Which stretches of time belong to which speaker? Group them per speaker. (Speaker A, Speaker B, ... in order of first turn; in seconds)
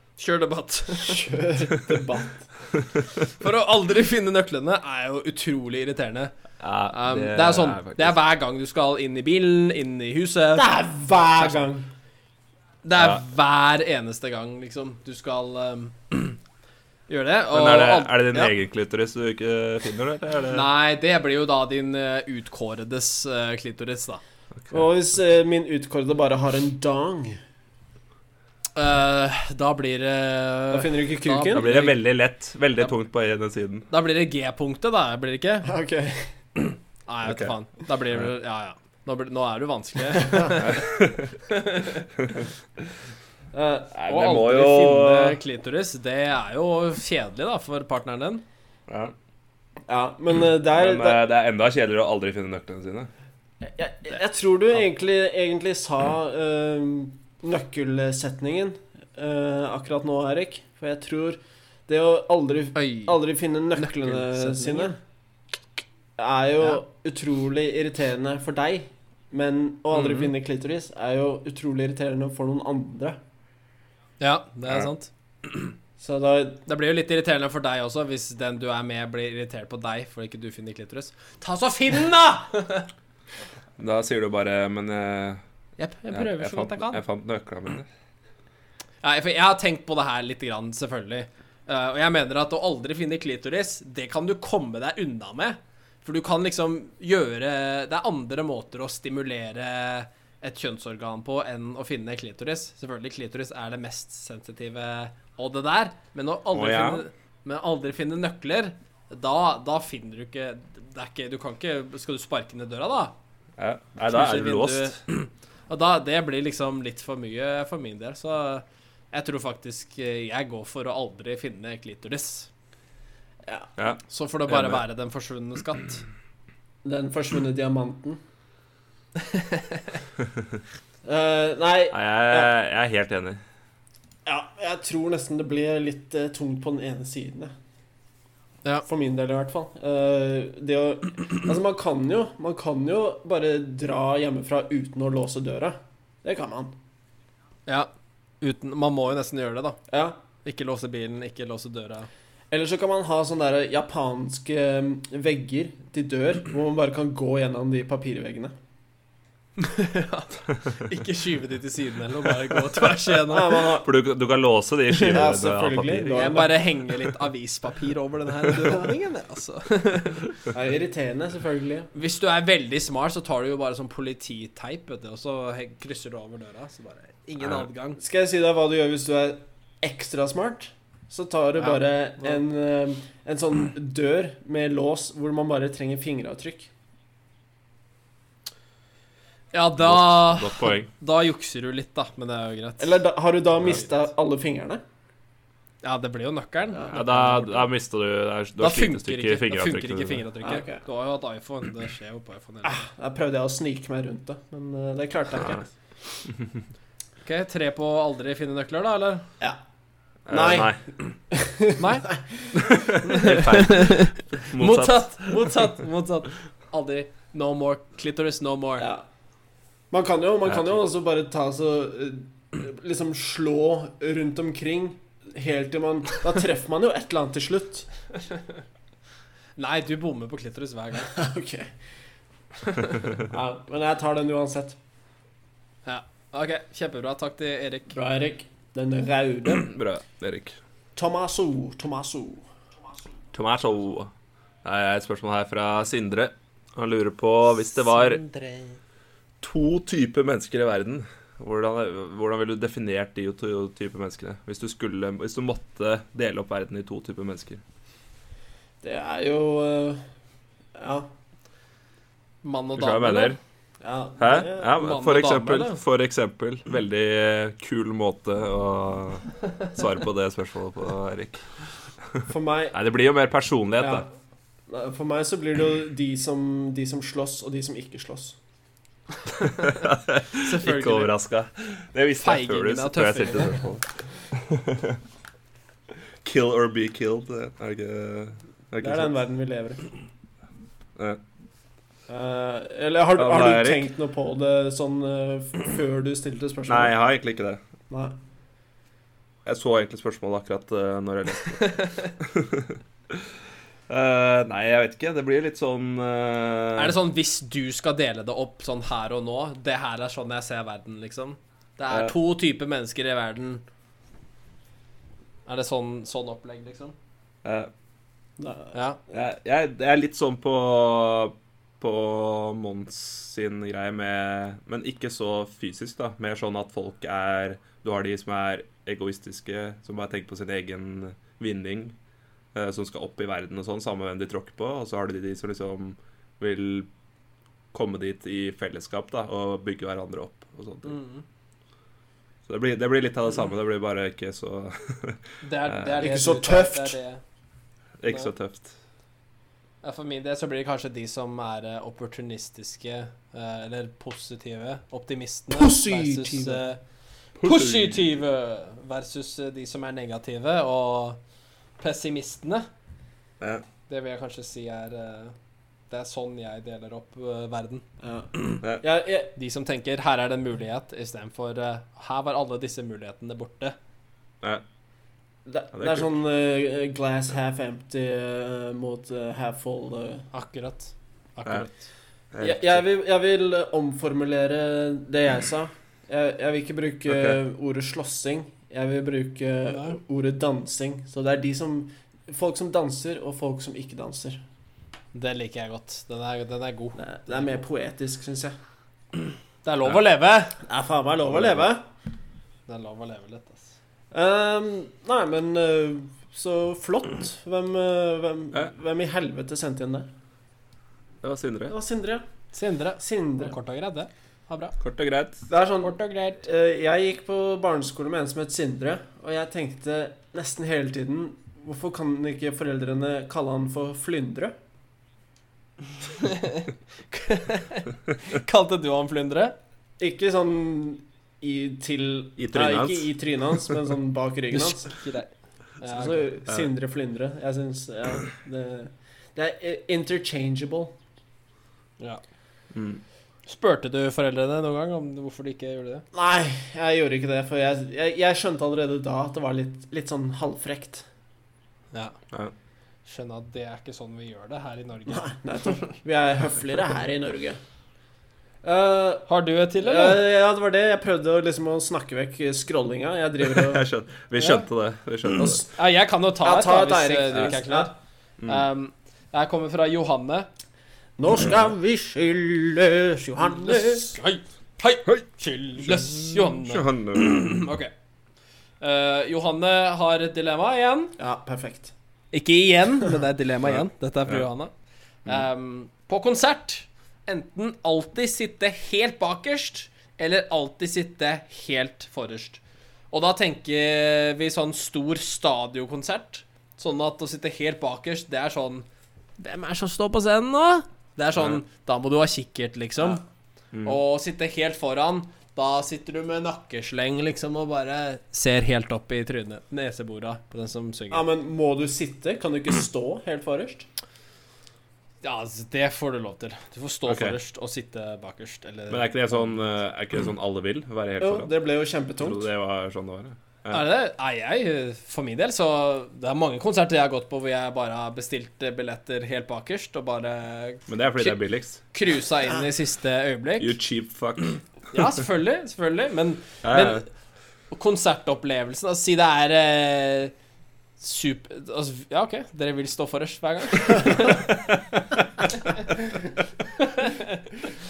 Speaker A: 0.2-1.3, 3.2-6.3, 6.9-10.7, 12.8-16.4, 17.1-18.5, 20.5-24.2, 28.8-32.0, 33.9-35.7, 36.6-40.9, 41.5-42.1, 44.1-48.4, 62.7-63.2, 63.7-64.9, 69.9-70.3, 74.2-75.7, 76.7-82.9, 85.8-87.0, 89.0-113.1, 114.0-122.5, 124.1-126.0, 129.2-129.9, 148.4-149.8, 150.4-152.1, 159.6-163.6, 166.1-170.3, 171.9-178.0, 181.6-182.3, 189.5-193.0, 195.8-197.7, 198.6-202.8, 207.2-209.2, 211.8-212.1, 213.0-218.9, 229.6-231.1, 232.6-233.0, 235.8-237.9, 248.3-248.7, 262.4-263.4, 264.7-265.8, 280.4-281.1, 282.2-283.6, 301.6-302.1, 306.8-313.6, 315.5-316.9, 318.7-319.0, 340.8-341.2, 345.4-347.2, 349.8-356.8, 357.4-361.2, 361.8-362.7, 363.9-365.3, 365.9-367.8, 369.4-373.8, 380.3-381.8, 389.7-390.0, 395.1-397.5, 399.6-400.6, 402.7-403.7, 412.5-414.8, 415.8-416.4, 426.0-429.6, 434.5-436.3, 443.5-446.0, 453.1-455.8, 459.3-460.2, 464.4-464.6, 465.6-467.9, 468.5-470.5, 473.6-477.9, 478.8-481.1, 482.3-484.7, 485.2-498.9, 499.4-503.2, 503.8-511.2, 515.2-519.6, 523.7-531.4, 531.9-533.8, 534.9-537.1, 537.7-540.3, 541.0-544.5, 545.5-547.6
Speaker B: 1.0-2.5, 10.6-11.9, 24.7-27.4, 30.7-31.6, 35.6-36.3, 40.2-40.6, 43.5-44.1, 49.9-51.2, 53.6-65.0, 66.2-73.2, 76.0-76.6, 126.8-128.2, 131.0-132.5, 134.2-137.5, 138.8-146.8, 149.9-150.2, 152.5-158.5, 163.3-163.9, 165.0-166.6, 170.5-171.9, 178.0-186.7, 192.8-194.8, 196.7-197.0, 200.4-200.8, 202.6-205.7, 210.3-210.7, 211.3-212.8, 218.8-219.0, 219.9-227.9, 231.1-231.7, 233.2-234.8, 237.9-239.7, 240.9-242.4, 258.8-260.0, 260.8-261.1, 263.8-264.7, 272.3-272.8, 273.8-274.1, 274.7-278.4, 288.8-289.8, 292.1-296.9, 297.9-298.1, 318.4-318.7, 346.0-347.0, 355.5-356.6, 368.0-369.3, 375.5-380.3, 382.4-394.4, 397.0-398.5, 400.6-401.8, 404.1-410.1, 411.7-412.2, 413.0-413.6, 415.5-424.5, 430.0-434.9, 435.9-440.9, 446.1-451.0, 455.1-457.6, 458.6-459.3, 459.8-463.9, 465.4-465.6, 466.4-467.9, 471.2-474.2, 481.2-481.9, 511.1-513.9, 521.2-522.5
Speaker C: 6.6-8.2, 12.9-13.2, 17.5-20.7, 31.5-33.9, 37.2-37.5, 40.6-41.3, 42.2-42.5, 43.9-45.4, 48.9-49.1, 50.7-53.1, 83.8-85.4, 86.1-87.9, 106.5-107.0, 113.6-115.0, 123.8-124.8, 131.9-133.4, 163.8-166.4, 177.4-177.7, 189.8-190.9, 196.9-200.2, 206.3-206.6, 210.3-210.8, 212.5-215.6, 220.5-220.8, 239.5-240.6, 243.3-244.1, 244.6-248.2, 249.4-257.6, 262.8-263.4, 264.2-271.5, 272.1-274.0, 279.4-285.0, 286.2-289.1, 293.1-293.9, 296.7-297.6, 299.4-303.2, 303.9-307.0, 317.4-317.7, 319.1-331.9, 332.5-336.9, 337.7-340.9, 342.5-346.0, 348.0-348.7, 357.4-358.1, 375.7-376.1, 382.3-382.8, 387.1-387.4, 401.3-401.7, 411.2-411.7, 414.8-415.4, 432.4-433.1, 442.7-443.0, 463.4-465.6, 468.4-468.6, 475.8-477.6, 483.6-484.4, 503.7-504.0, 517.1-517.4, 518.9-521.5, 522.2-523.8, 530.9-531.8, 533.6-534.6, 536.6-537.0